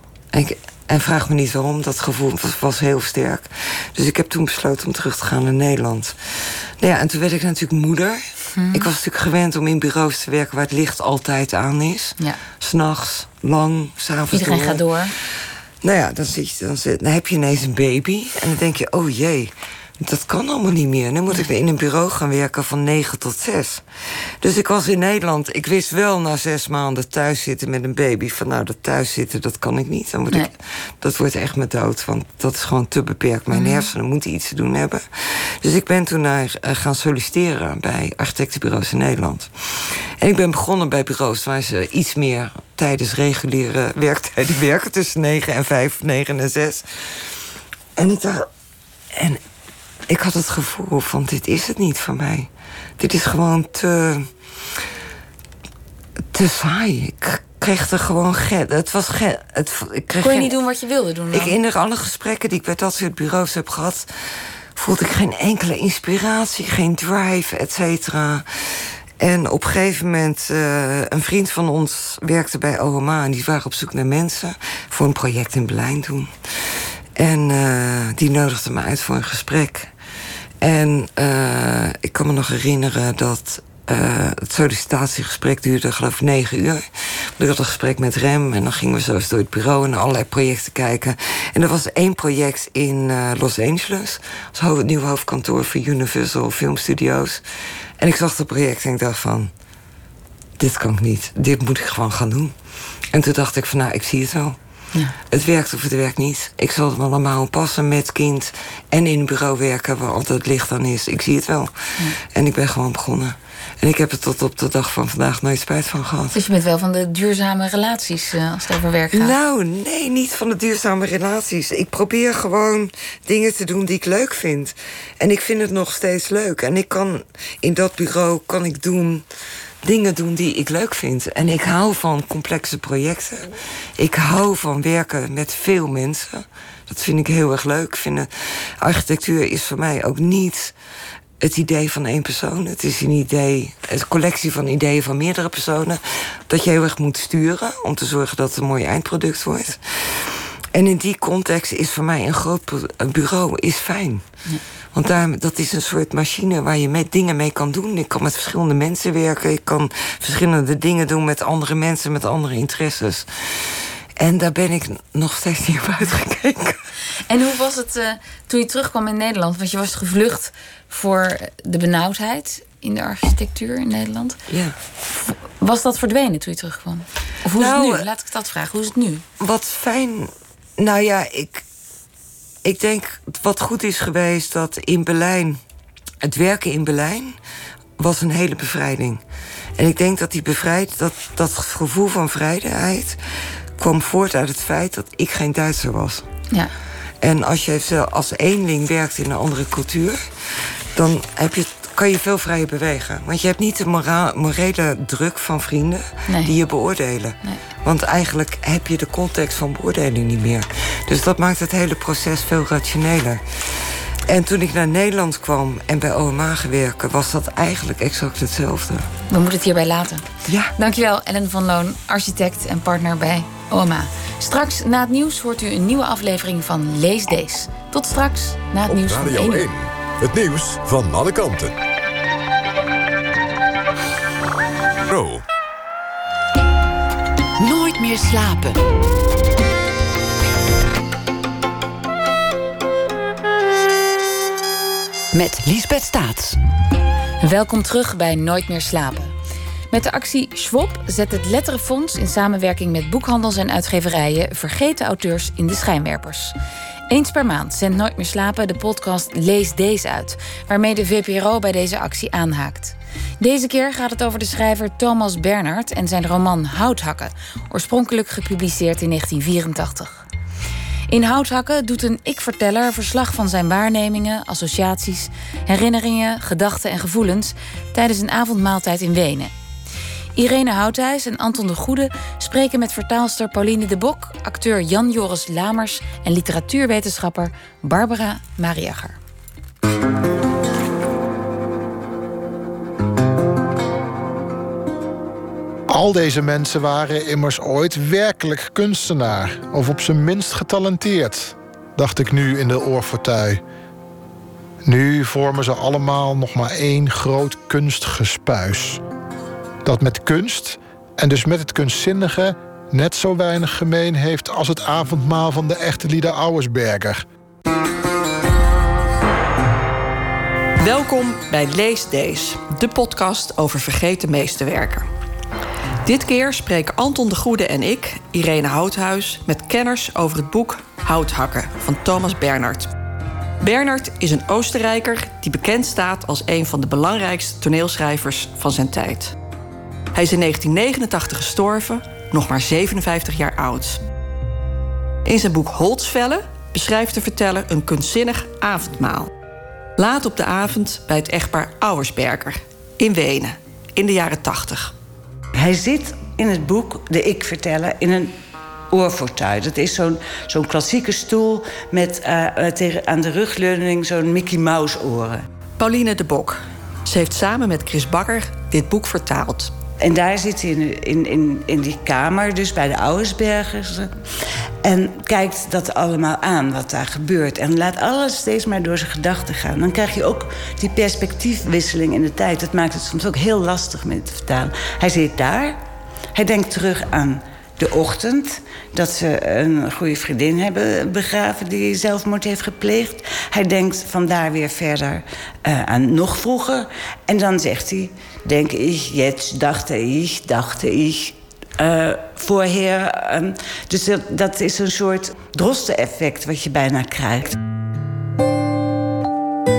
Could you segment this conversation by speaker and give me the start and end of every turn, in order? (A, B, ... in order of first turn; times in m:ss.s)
0:00.3-0:23.8 A
0:08.6-0:08.9 B
0:14.3-0:15.1 B
0:24.4-0:47.3 A
0:33.5-0:33.8 B
0:48.0-0:48.5 A
0:49.1-0:49.4 A
0:50.1-0:54.3 A
0:56.3-1:00.6 A
1:00.2-1:01.6 B
1:01.3-1:04.1 A
1:04.8-1:16.3 A
1:17.2-1:19.9 A
1:20.6-1:37.4 A
1:38.0-1:39.5 A
1:40.6-1:42.6 A
1:43.1-1:44.6 A
1:45.3-1:56.4 A
1:56.3-1:59.3 B
1:59.1-2:09.2 A
2:09.8-2:20.8 A
2:21.4-2:34.2 A
2:34.9-2:46.8 A
2:47.3-2:54.4 B
2:54.5-2:54.8 A
2:55.2-2:59.2 B
2:57.6-2:58.1 A
2:59.4-3:01.6 A
3:02.6-3:05.6 A
3:06.2-3:07.4 A
3:08.0-3:09.2 A
3:09.8-3:13.2 A
3:13.8-3:16.3 A
3:17.2-3:20.2 A
3:20.9-3:33.4 A
3:26.3-3:26.5 B
3:34.3-3:39.1 A
3:39.3-3:40.2 B
3:40.5-3:40.7 A
3:40.8-3:49.7 B
3:48.9-3:51.7 C
3:55.1-3:55.4 C
3:57.6-3:58.8 D
4:05.3-4:06.6 D
4:07.4-4:09.3 B
4:09.9-4:16.6 B
4:17.1-4:30.2 B
4:31.1-4:39.5 B
4:40.4-4:49.2 B
4:55.9-5:03.6 E
5:04.8-5:09.0 E
5:09.8-5:17.2 E
5:20.8-5:25.1 F
5:26.0-5:32.9 F
5:33.6-5:39.4 F
5:40.1-5:44.0 F
5:45.2-5:49.3 F
5:50.0-5:54.9 F
5:55.6-5:58.4 G
5:58.9-6:05.4 G
6:05.8-6:09.7 F
6:10.0-6:14.1 G
6:14.8-6:25.8 G
6:26.3-6:47.6 G